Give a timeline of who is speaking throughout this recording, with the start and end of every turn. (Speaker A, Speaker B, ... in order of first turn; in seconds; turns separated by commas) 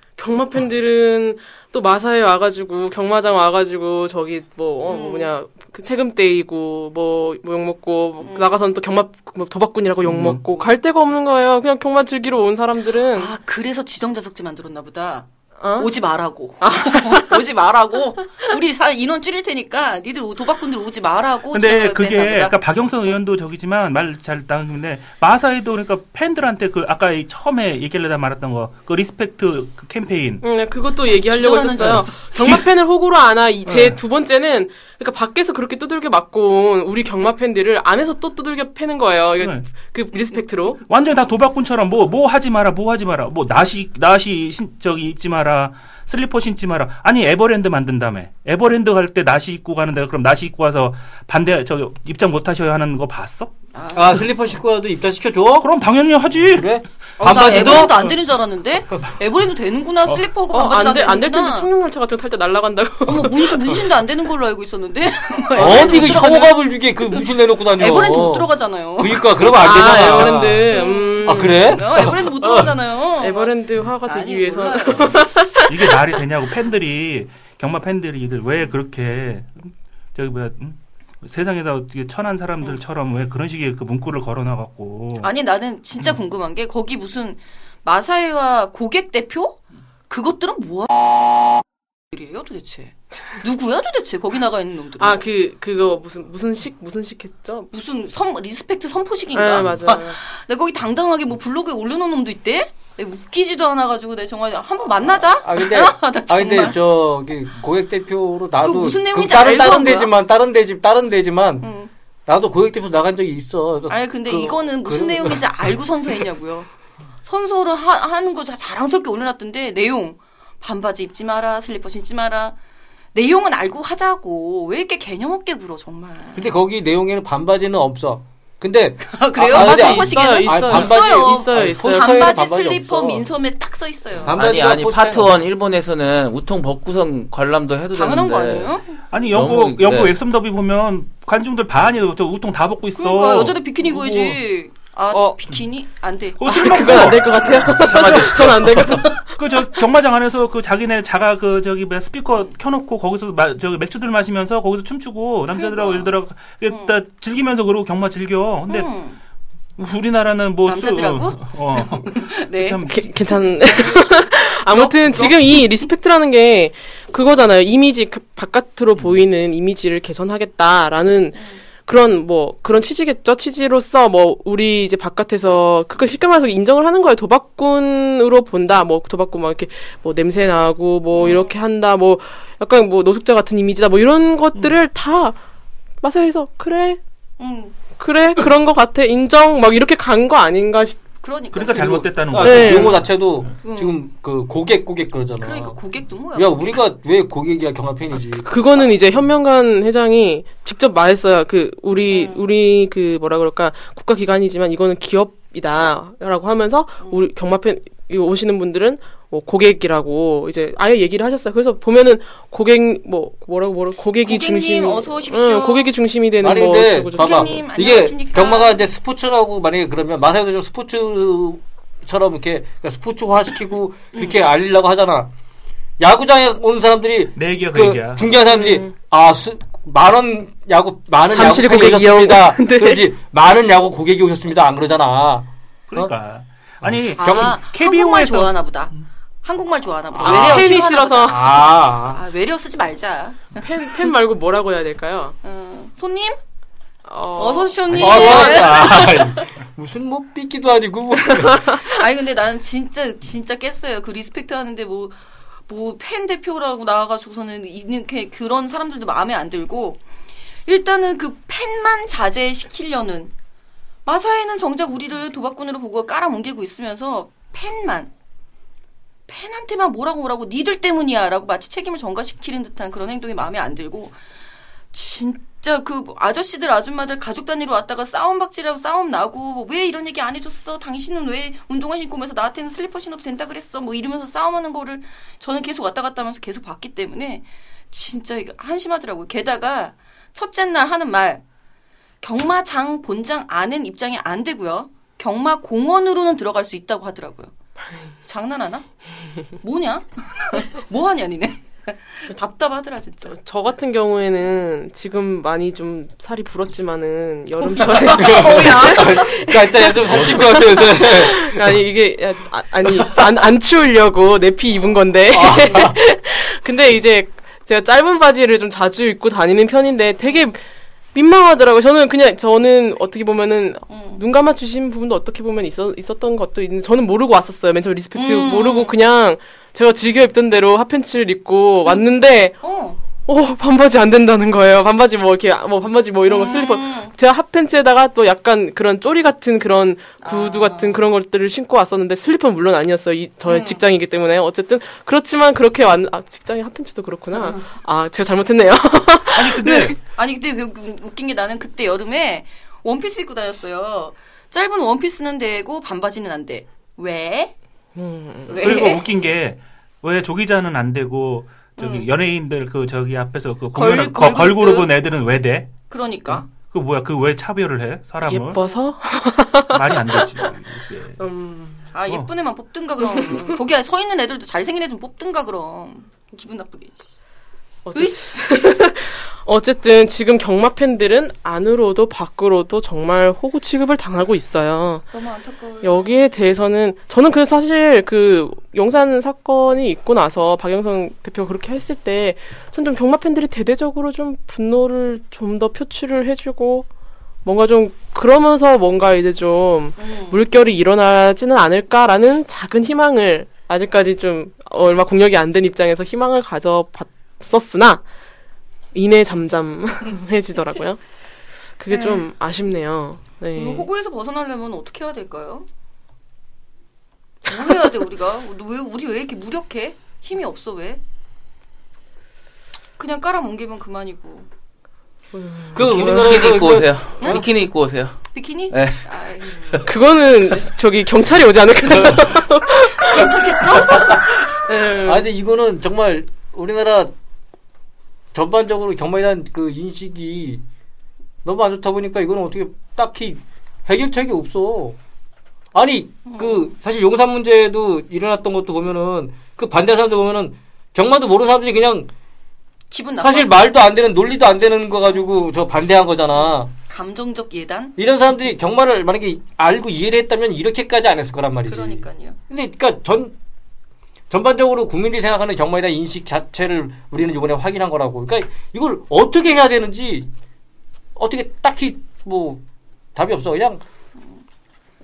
Speaker A: 0.2-13.3, Speaker B: 4.9-5.3, Speaker B: 8.2-8.6, Speaker C: 10.0-10.4, Speaker B: 13.1-22.6, Speaker A: 15.6-15.9, Speaker A: 16.6-17.4, Speaker C: 21.5-30.4, Speaker A: 30.4-40.8, Speaker B: 31.2-32.6, Speaker C: 32.4-32.7, Speaker C: 33.7-34.0, Speaker C: 39.4-39.7, Speaker C: 40.9-53.5, Speaker B: 53.7-54.3, Speaker D: 53.9-55.7, Speaker C: 55.6-56.8, Speaker D: 56.5-58.2, Speaker B: 57.2-61.7, Speaker A: 60.5-63.6, Speaker B: 63.0-75.2, Speaker D: 65.6-72.8, Speaker A: 65.6-66.2, Speaker A: 69.6-71.8, Speaker A: 73.2-75.9, Speaker C: 75.7-85.3, Speaker B: 85.2-91.6, Speaker B: 92.1-95.2, Speaker A: 95.0-97.7, Speaker B: 97.7-106.8, Speaker A: 99.3-100.2, Speaker D: 105.4-111.7, Speaker B: 108.6-110.1, Speaker B: 111.6-111.9, Speaker D: 112.3-115.4, Speaker B: 113.9-116.7, Speaker B: 117.2-122.6, Speaker B: 123.1-126.5, Speaker D: 126.3-133.3, Speaker B: 129.0-134.4, Speaker A: 129.5-132.3, Speaker D: 134.2-135.3, Speaker E: 134.3-138.7, Speaker B: 137.9-139.0, Speaker C: 139.1-144.4, Speaker E: 139.3-140.2, Speaker B: 143.0-147.1, Speaker A: 145.1-145.4, Speaker C: 146.4-158.9, Speaker A: 146.4-149.3, Speaker B: 155.5-156.1, Speaker B: 156.7-157.0, Speaker B: 158.7-159.2, Speaker C: 159.8-163.4, Speaker B: 160.7-162.8, Speaker A: 162.9-185.4, Speaker B: 163.6-165.8, Speaker B: 181.2-181.5, Speaker A: 186.0-187.0, Speaker B: 187.4-187.8, Speaker A: 188.0-191.0, Speaker B: 191.2-192.1, Speaker C: 191.5-193.2, Speaker D: 191.7-195.8, Speaker A: 192.4-193.0, Speaker B: 193.6-194.0, Speaker B: 195.4-196.8, Speaker D: 196.3-198.5, Speaker A: 198.2-217.6, Speaker B: 202.1-202.4, Speaker B: 214.2-215.9, Speaker D: 216.4-225.3, Speaker B: 217.2-218.9, Speaker D: 226.0-236.1, Speaker C: 227.4-228.3, Speaker A: 228.5-228.9, Speaker A: 231.3-233.1, Speaker C: 235.9-239.0, Speaker D: 236.8-237.6, Speaker B: 237.2-238.9, Speaker B: 239.4-243.6, Speaker D: 240.2-242.2, Speaker A: 240.2-241.4, Speaker A: 243.6-245.3, Speaker B: 245.4-246.4, Speaker A: 247.1-248.7, Speaker B: 247.4-249.3, Speaker C: 247.9-248.3, Speaker D: 247.9-251.7, Speaker B: 251.7-260.0, Speaker B: 260.7-263.3, Speaker B: 264.1-268.1, Speaker B: 269.3-274.2, Speaker B: 274.9-291.4, Speaker B: 292.2-297.5, Speaker B: 298.2-298.9, Speaker B: 299.5-303.3, Speaker A: 303.3-320.6, Speaker B: 307.8-309.3, Speaker D: 308.0-311.7, Speaker D: 315.3-316.0, Speaker A: 321.1-332.6, Speaker B: 323.9-324.2, Speaker B: 328.1-328.9, Speaker B: 332.6-333.0, Speaker A: 333.3-350.0, Speaker B: 336.3-337.1, Speaker B: 340.2-341.0, Speaker B: 343.5-343.8, Speaker B: 347.3-347.7, Speaker C: 349.4-350.0, Speaker B: 350.1-357.5, Speaker A: 358.0-358.8, Speaker B: 358.5-359.1, Speaker C: 358.6-368.6, Speaker B: 361.8-362.1, Speaker B: 363.7-364.9, Speaker B: 365.9-366.5, Speaker A: 368.2-370.3, Speaker B: 368.6-368.8, Speaker C: 369.7-371.2, Speaker A: 371.2-371.8, Speaker B: 371.9-377.2, Speaker A: 373.0-373.5, Speaker A: 377.9-385.1, Speaker B: 377.9-378.4, Speaker B: 385.1-386.2, Speaker A: 385.8-396.9, Speaker A: 397.4-408.0, Speaker B: 400.0-400.4, Speaker A: 408.9-411.0, Speaker A: 411.8-413.9, Speaker B: 411.9-412.3, Speaker B: 413.6-415.7, Speaker B: 417.5-421.0, Speaker B: 423.0-424.5, Speaker A: 425.3-426.4, Speaker D: 425.7-427.4, Speaker E: 425.8-429.1, Speaker B: 427.2-427.5, Speaker B: 428.3-429.8, Speaker A: 429.8-435.3, Speaker B: 433.0-434.2, Speaker D: 435.0-437.1, Speaker D: 438.3-440.6, Speaker D: 441.4-445.0, Speaker D: 445.7-452.1, Speaker B: 446.3-446.8, Speaker B: 452.9-453.7, Speaker D: 453.2-456.7, Speaker B: 456.4-457.9, Speaker D: 458.0-463.3, Speaker B: 461.6-462.4, Speaker D: 464.3-470.3, Speaker D: 471.2-472.6, Speaker D: 473.1-473.8